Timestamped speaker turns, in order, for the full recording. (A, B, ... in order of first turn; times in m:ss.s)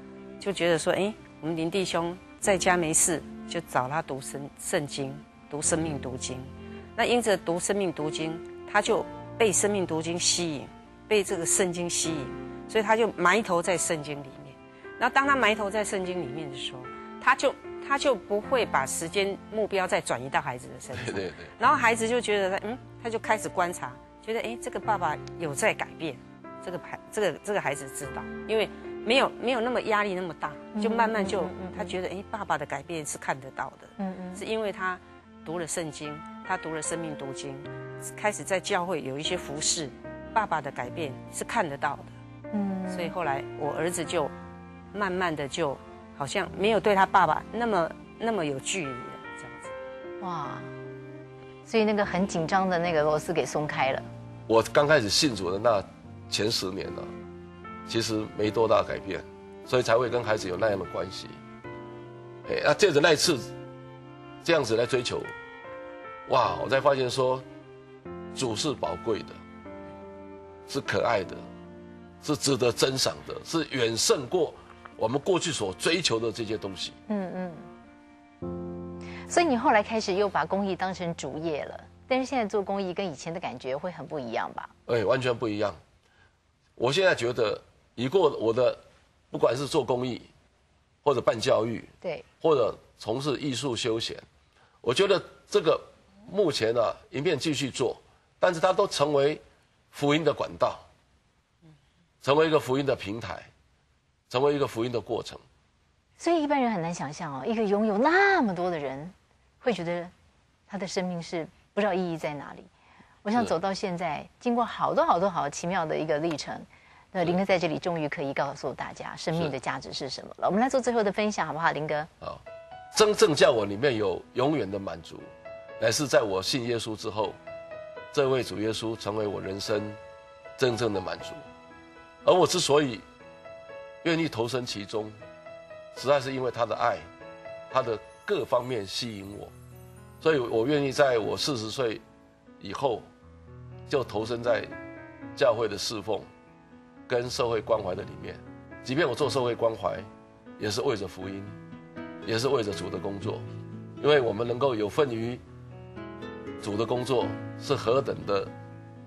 0:00.4-0:42.1 A
0:20.9-0:21.5 B
0:30.7-0:31.9 C
0:34.0-0:34.4 C
0:42.5-0:43.1 C
0:42.9-0:44.3 A
0:44.9-0:49.7 A
0:50.2-0:50.7 C
0:51.6-0:54.1 C
0:54.5-0:57.1 B
0:57.9-1:01.4 B
1:02.4-1:03.5 B
1:04.4-1:05.3 B
1:06.3-1:07.4 B
1:08.3-1:09.4 B
1:10.7-1:11.4 B
1:12.2-1:17.0 B
1:17.1-1:17.7 C
1:19.3-1:24.7 C
1:24.9-1:25.8 B
1:26.8-1:30.3 B
1:31.0-1:34.2 B
1:34.8-1:39.4 B
1:39.9-1:40.8 B
1:42.2-1:43.5 B
1:44.3-1:45.4 B
1:46.2-1:50.1 C
1:50.7-1:52.7 C
1:53.2-2:02.1 C
2:02.9-2:05.3 B
2:05.8-2:07.4 B
2:08.1-2:10.0 B
2:10.6-2:11.4 B
2:12.2-2:13.0 B
2:14.0-2:15.2 B
2:15.9-2:17.1 B
2:17.7-2:19.5 B
2:20.2-2:22.0 B
2:22.6-2:23.1 B
2:23.9-2:24.7 B
2:25.4-2:26.3 B
2:27.1-2:31.6 B
2:32.2-2:33.4 B
2:34.0-2:35.4 B
2:36.6-2:38.5 B